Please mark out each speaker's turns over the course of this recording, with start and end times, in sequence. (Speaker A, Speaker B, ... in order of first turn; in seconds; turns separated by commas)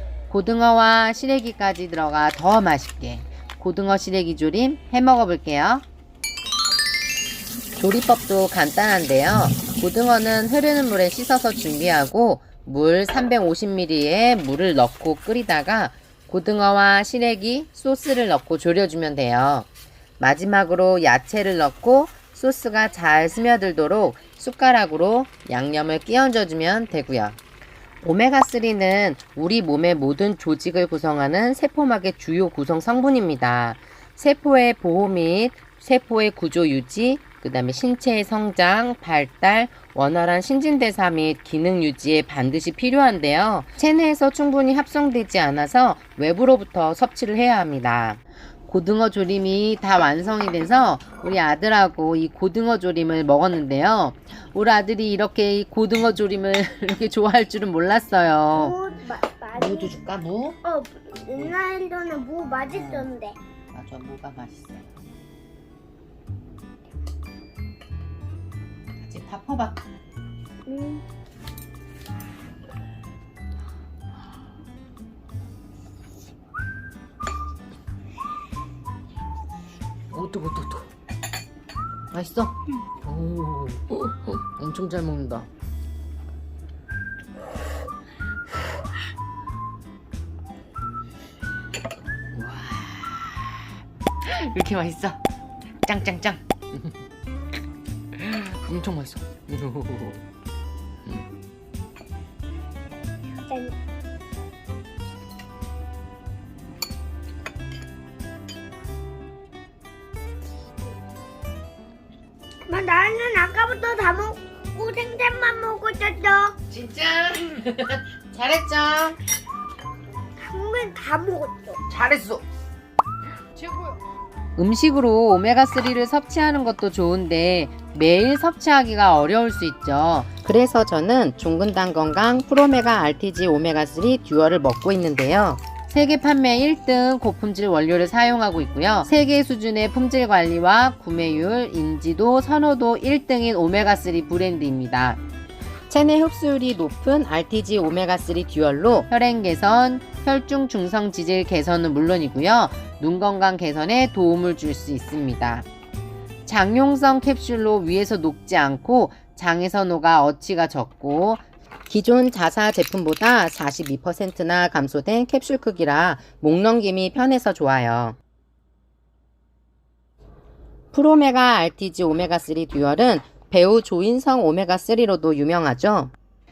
Speaker A: 0.3-5.8, Speaker A: 7.8-19.7, Speaker A: 20.2-27.4, Speaker A: 28.0-58.8, Speaker B: 58.5-59.9, Speaker A: 59.5-60.5, Speaker B: 60.6-63.4, Speaker A: 62.7-63.1, Speaker A: 63.7-64.8, Speaker A: 69.0-69.8, Speaker B: 70.7-71.0, Speaker A: 80.1-80.8, Speaker A: 82.1-82.5, Speaker A: 83.0-83.8, Speaker A: 84.6-85.5, Speaker A: 92.3-93.4, Speaker A: 94.2-95.2, Speaker A: 95.8-96.4, Speaker A: 98.5-99.2, Speaker B: 103.4-103.7, Speaker B: 112.7-116.6, Speaker A: 116.7-119.2, Speaker B: 120.4-121.8, Speaker A: 121.9-122.4, Speaker A: 124.6-145.2, Speaker A: 145.9-155.7, Speaker A: 156.4-168.2, Speaker A: 170.9-176.1